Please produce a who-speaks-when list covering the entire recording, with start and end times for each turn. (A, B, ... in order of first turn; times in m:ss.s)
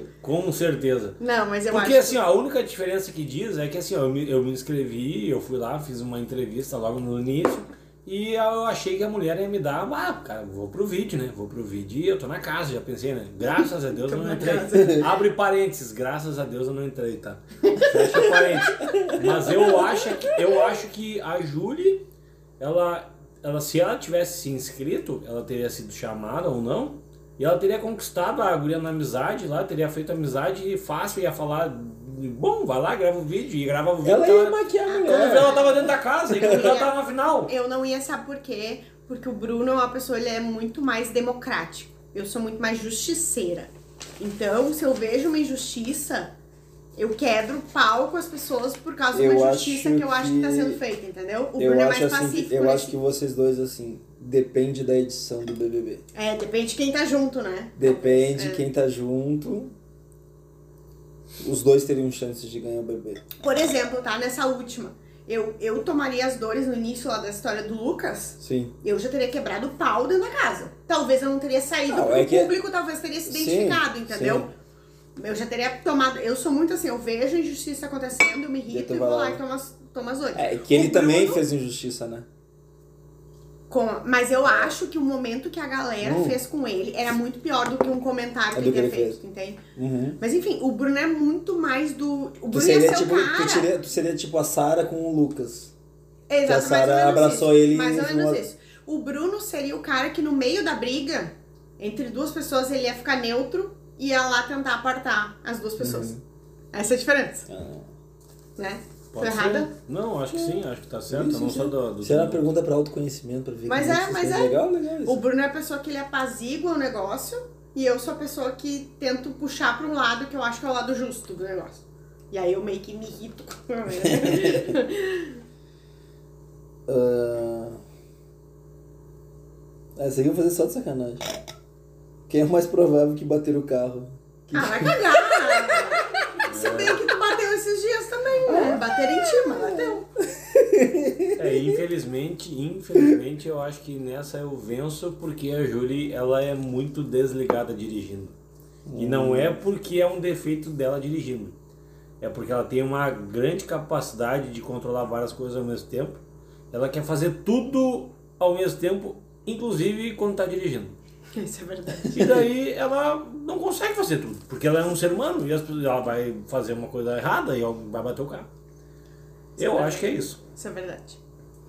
0:00.2-0:01.2 A
0:01.2-0:02.2 B
0:01.7-0:22.0 A
0:13.6-0:15.1 B
0:14.7-0:15.0 C
0:18.9-0:19.3 C
0:22.6-0:37.5 A
0:34.0-0:35.6 C
0:34.9-0:36.9 B
0:36.3-0:36.7 C
0:37.4-0:46.3 B
0:47.0-0:52.9 B
0:49.1-0:50.8 C
0:51.6-0:56.0 C
0:56.1-0:58.6 B
0:57.8-0:59.7 C
1:01.4-1:03.2 C
1:03.4-1:14.5 B
1:08.4-1:08.7 C
1:11.9-1:12.5 C
1:13.2-1:14.5 C
1:15.2-1:21.4 B
1:18.7-1:19.4 C
1:20.3-1:22.2 C
1:23.7-1:29.6 B
1:26.0-1:26.4 C
1:28.5-1:29.2 C
1:29.7-1:30.2 C
1:30.2-1:33.7 B
1:32.5-1:35.7 C
1:36.3-1:46.1 B
1:36.4-1:38.4 C
1:45.8-1:46.2 C
1:46.7-1:47.4 B
1:47.5-1:47.9 C
1:48.6-1:49.7 B
1:49.1-1:52.5 A
1:50.3-1:55.2 C
1:53.7-2:05.4 B
2:04.0-2:04.7 C
2:06.9-2:07.8 C
2:10.0-2:11.3 C
2:12.3-2:15.9 C
2:14.5-2:20.0 B
2:16.4-2:17.0 A
2:18.4-2:21.8 C
2:21.4-2:28.3 A
2:28.8-2:29.6 C
2:29.0-2:31.5 A
2:32.2-2:36.2 A
2:36.7-2:41.0 A
2:41.3-2:42.2 B
2:42.1-2:48.5 A
2:49.6-2:50.4 A
2:49.6-2:51.2 B